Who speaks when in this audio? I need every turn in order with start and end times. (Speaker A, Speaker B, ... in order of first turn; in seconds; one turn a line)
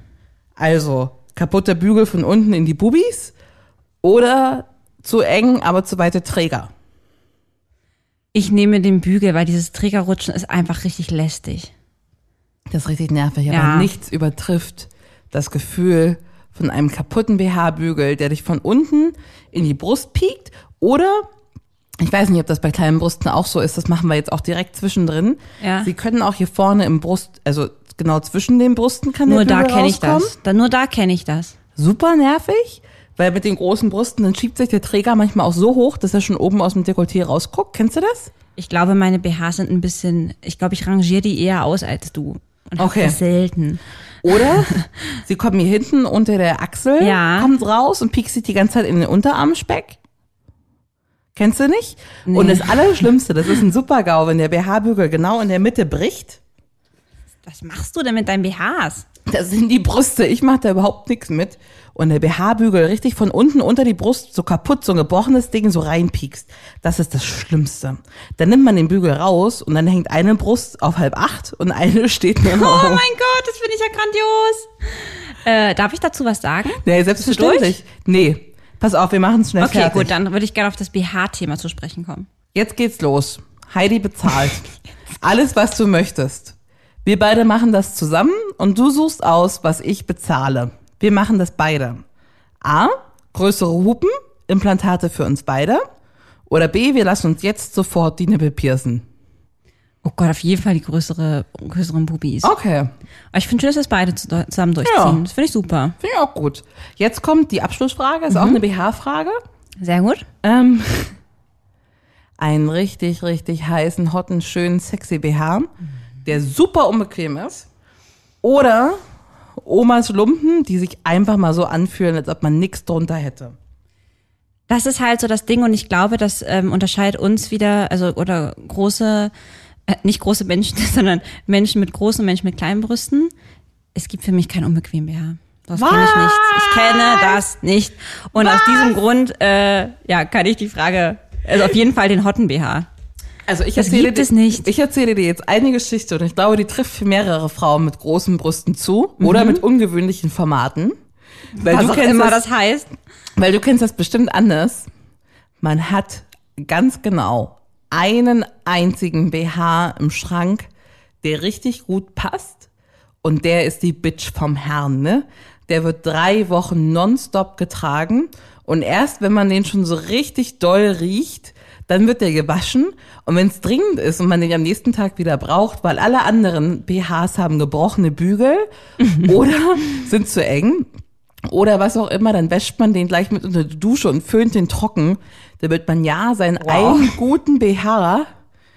Speaker A: 0.6-3.3
Speaker A: 4.0-6.7
Speaker B: 8.3-11.7
Speaker A: 12.7-21.2
Speaker B: 13.5-13.9
Speaker A: 22.0-30.3
Speaker B: 25.6-25.9
Speaker B: 29.2-31.5
Speaker A: 31.8-38.3
Speaker B: 38.6-44.9
Speaker A: 42.8-43.2
Speaker A: 44.2-50.0
Speaker B: 47.0-47.5
Speaker A: 51.3-56.4
Speaker B: 52.2-53.1
Speaker B: 57.5-59.0
Speaker A: 59.3-73.0
Speaker B: 72.5-77.7
Speaker A: 76.8-80.1
Speaker B: 79.6-82.3
Speaker A: 82.5-92.0
Speaker A: 92.6-95.8
Speaker A: 96.5-99.0
Speaker B: 100.0-102.5
Speaker A: 102.4-102.9
Speaker B: 103.3-106.0
Speaker A: 104.8-105.2
Speaker A: 106.0-109.4
Speaker B: 108.3-108.6
Speaker B: 109.8-110.2
Speaker A: 110.4-111.1
Speaker A: 112.4-115.7
Speaker A: 116.2-117.7
Speaker A: 118.4-119.0
Speaker A: 119.6-123.5
Speaker B: 124.7-129.3
Speaker B: 129.9-133.3
Speaker B: 133.9-142.9
Speaker A: 135.7-137.4
Speaker A: 138.3-138.9
Speaker A: 143.5-151.0
Speaker B: 143.8-144.7
Speaker B: 149.2-149.6
Speaker B: 151.6-152.9
Speaker A: 151.6-152.4
Speaker A: 153.3-154.9
Speaker A: 155.6-160.7
Speaker A: 161.2-162.7
Speaker A: 163.2-178.7
Speaker B: 179.0-179.3
Speaker A: 179.2-180.9
Speaker A: 181.4-188.3
Speaker B: 186.6-187.1